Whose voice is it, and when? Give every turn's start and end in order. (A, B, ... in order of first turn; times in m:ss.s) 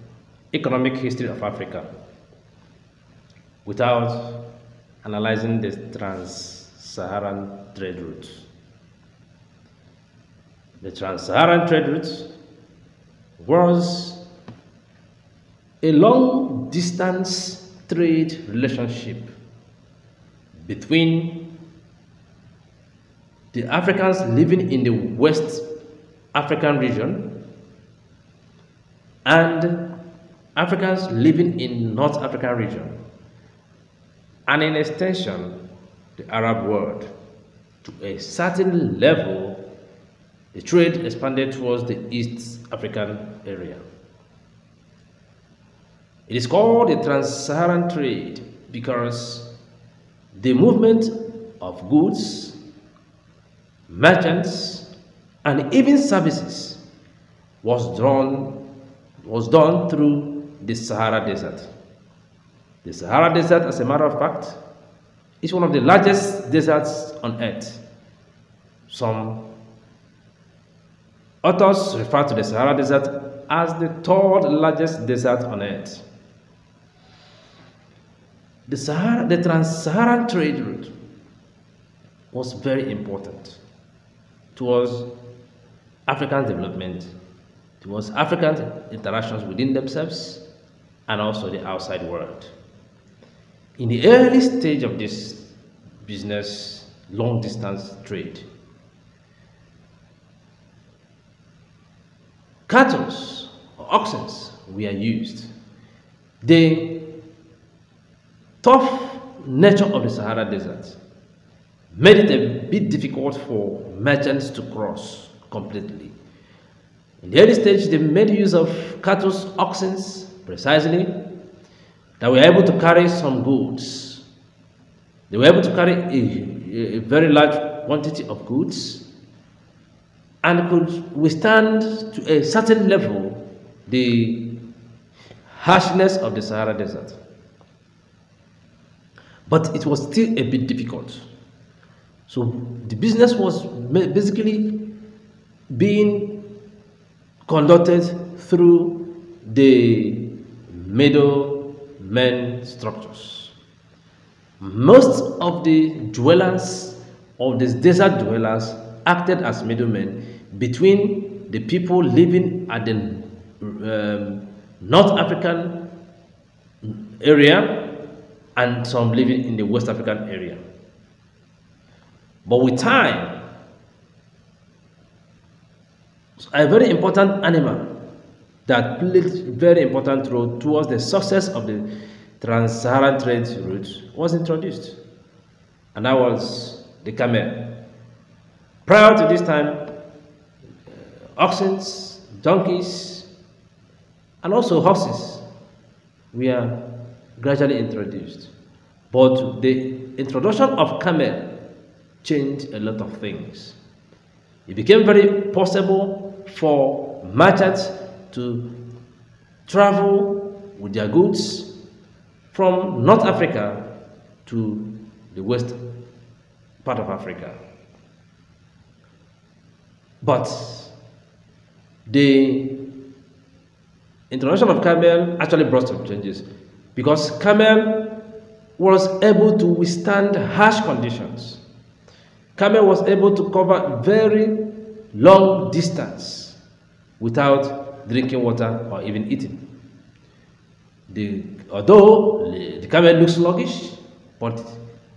0:00.5-0:01.8 A
0:03.6-0:04.4 A
0:05.0-0:08.5 A
0:10.8-0:12.3 A
0:13.4-0:14.2 A
0:15.8-0:19.3 A
0:20.6-0:21.5 A
0:23.5-0:25.6 A
0:26.3-0:27.3 A
0:29.2-0:29.8 A
0:30.6-0:32.9 A
0:34.5-0:35.6 A
0:36.2-0:37.1 A
0:37.8-0:39.6 A
0:40.5-0:43.8 A
0:46.3-0:49.5 A
0:50.3-0:52.6 A
0:53.9-0:54.9 A
0:55.4-0:56.8 A
0:57.6-0:58.6 A
0:59.2-1:01.7 A
1:02.8-1:04.6 A
1:05.4-1:07.8 A
1:08.9-1:09.4 A
1:11.4-1:16.0 A
1:18.7-1:20.9 A
1:22.3-1:23.6 A
1:24.5-1:25.1 A
1:26.1-1:27.1 A
1:27.8-1:30.4 A
1:31.1-1:32.5 A
1:33.8-1:35.4 A
1:36.0-1:38.4 A
1:42.7-1:45.5 A
1:46.4-1:47.1 A
1:48.6-1:51.0 A
1:51.9-1:56.1 A
1:57.2-2:01.1 A
2:02.2-2:04.2 A
2:05.3-2:09.0 A
2:10.4-2:14.6 A
2:15.5-2:17.2 A
2:19.5-2:21.2 A
2:22.3-2:24.8 A
2:25.7-2:26.5 A
2:27.4-2:33.5 A
2:34.6-2:45.9 A
2:46.8-2:47.8 A
2:48.6-2:50.6 A
2:52.4-2:53.3 A
2:56.4-2:57.9 A
2:58.6-3:01.9 A
3:02.4-3:05.0 A
3:05.9-3:07.8 A
3:08.8-3:09.8 A
3:11.4-3:13.3 A
3:14.4-3:15.4 A
3:16.3-3:16.8 A
3:17.4-3:18.5 A
3:19.1-3:21.5 A
3:22.2-3:23.8 A
3:24.6-3:28.7 A
3:29.6-3:31.7 A
3:32.5-3:33.9 A
3:34.4-3:35.8 A
3:36.8-3:37.6 A
3:40.2-3:40.9 A
3:42.1-3:42.8 A
3:44.3-3:48.1 A
3:48.8-3:51.6 A
3:52.6-3:54.6 A
3:55.1-3:56.6 A
3:57.2-3:59.6 A
4:01.1-4:04.8 A